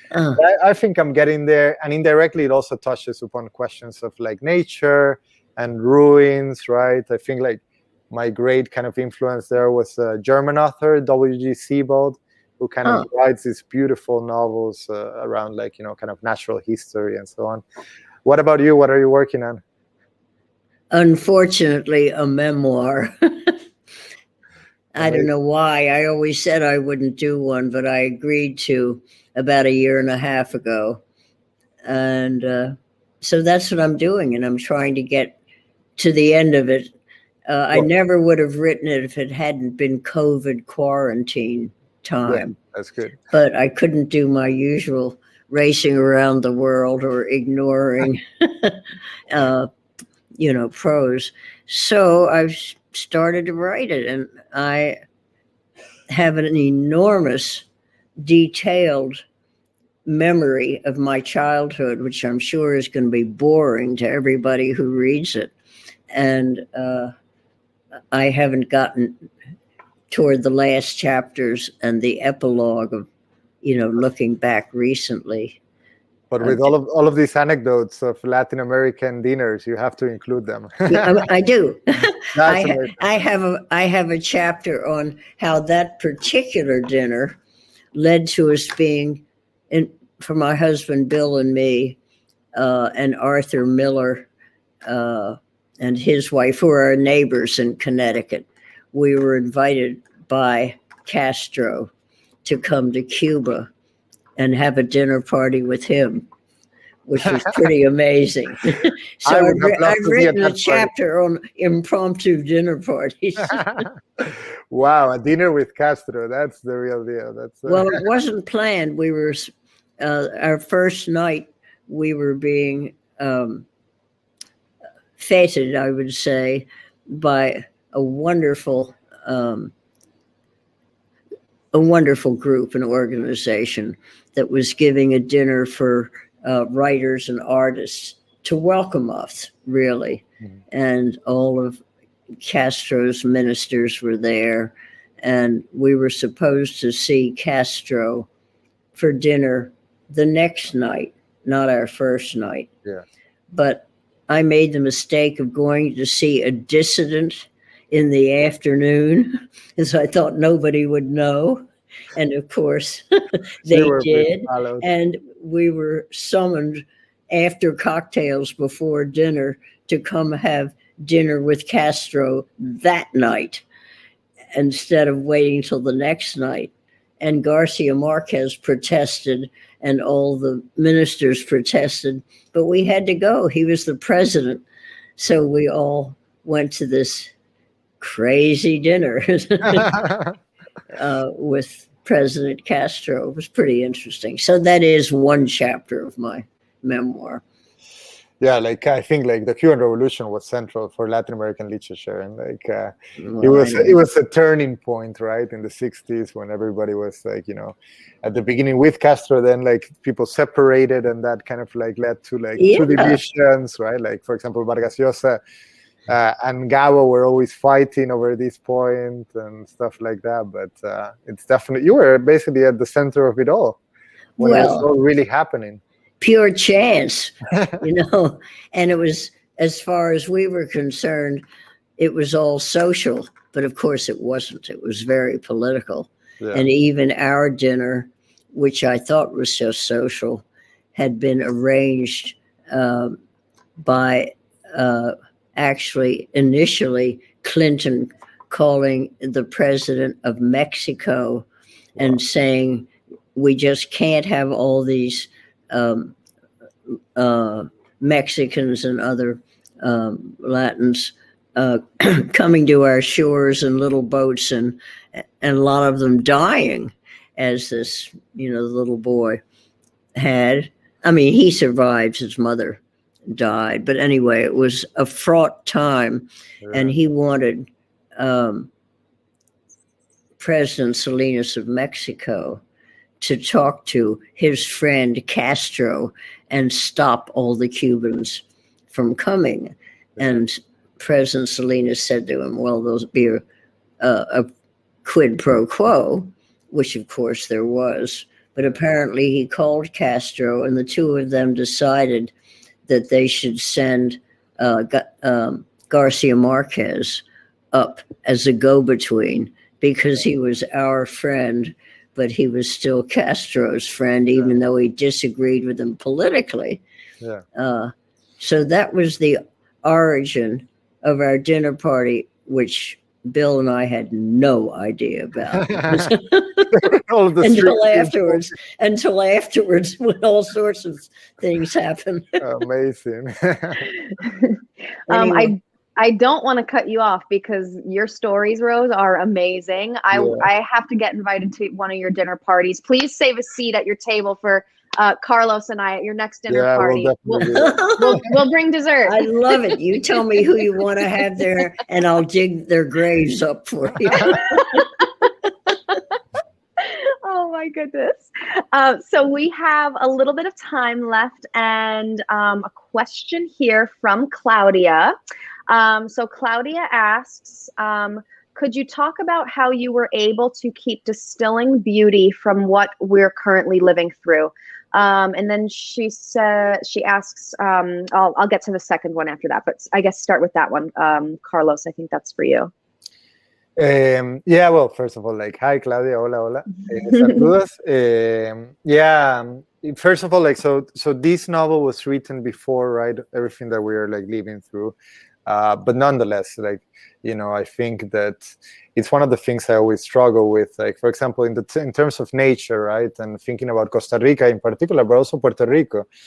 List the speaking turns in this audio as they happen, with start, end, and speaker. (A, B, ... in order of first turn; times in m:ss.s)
0:00.1-0:00.4 A
0:00.4-0:17.6 B
0:18.2-0:19.6 B
0:20.9-0:23.6 A
0:24.9-0:31.0 A
0:25.0-0:25.3 B
0:31.8-0:35.4 A
0:36.0-0:36.9 A
0:37.5-0:42.6 A
0:42.2-0:43.2 B
0:43.3-0:49.7 A
0:50.4-0:55.0 A
0:56.1-0:57.6 A
0:58.2-0:59.2 A
1:00.0-1:05.5 A
1:06.1-1:07.1 A
1:08.1-1:09.3 A
1:10.1-1:13.1 A
1:13.6-1:15.6 A
1:16.3-1:21.2 B
1:20.8-1:27.4 A
1:22.3-1:23.0 B
1:27.9-1:32.0 A
1:32.5-1:34.3 A
1:34.8-1:41.9 A
1:42.4-1:43.7 A
1:44.4-1:46.3 A
1:47.1-1:53.8 A
1:49.2-1:50.9 B
1:54.2-1:58.0 B
1:57.7-2:03.6 A
2:05.2-2:09.7 A
2:11.7-2:21.8 A
2:22.4-2:28.3 A
2:28.9-2:32.7 A
2:33.5-2:53.6 A
2:43.7-2:44.8 B
2:54.5-3:04.6 A
3:05.2-3:07.3 A
3:08.0-3:10.1 A
3:09.7-3:10.3 B
3:10.9-3:17.4 A
3:18.4-3:35.4 B
3:23.2-3:24.0 A
3:32.6-3:33.2 A
3:36.1-3:43.8 B
3:44.4-3:44.9 A
3:44.4-3:45.8 B
3:46.2-3:51.4 A
3:52.0-4:00.4 A
4:00.9-4:03.2 A
4:03.8-4:16.1 A
4:17.2-4:29.4 A
4:30.2-4:38.7 A
4:36.6-4:36.9 B
4:40.4-4:42.6 A
4:43.2-4:53.4 A
4:54.0-4:54.5 A
4:55.0-5:02.3 A
5:02.9-5:16.8 A
5:17.5-5:32.4 A
5:25.8-5:26.1 B
5:26.7-5:28.5 B
5:32.4-5:33.9 B
5:34.2-5:34.6 C
5:35.1-5:35.5 A
5:35.1-5:49.6 C
5:40.1-5:40.4 B
5:46.5-5:47.8 B
5:47.5-5:48.2 A
5:49.0-5:54.9 A
5:54.4-5:54.9 C
5:56.8-6:05.1 C
6:05.7-6:22.7 C
6:23.8-6:46.1 B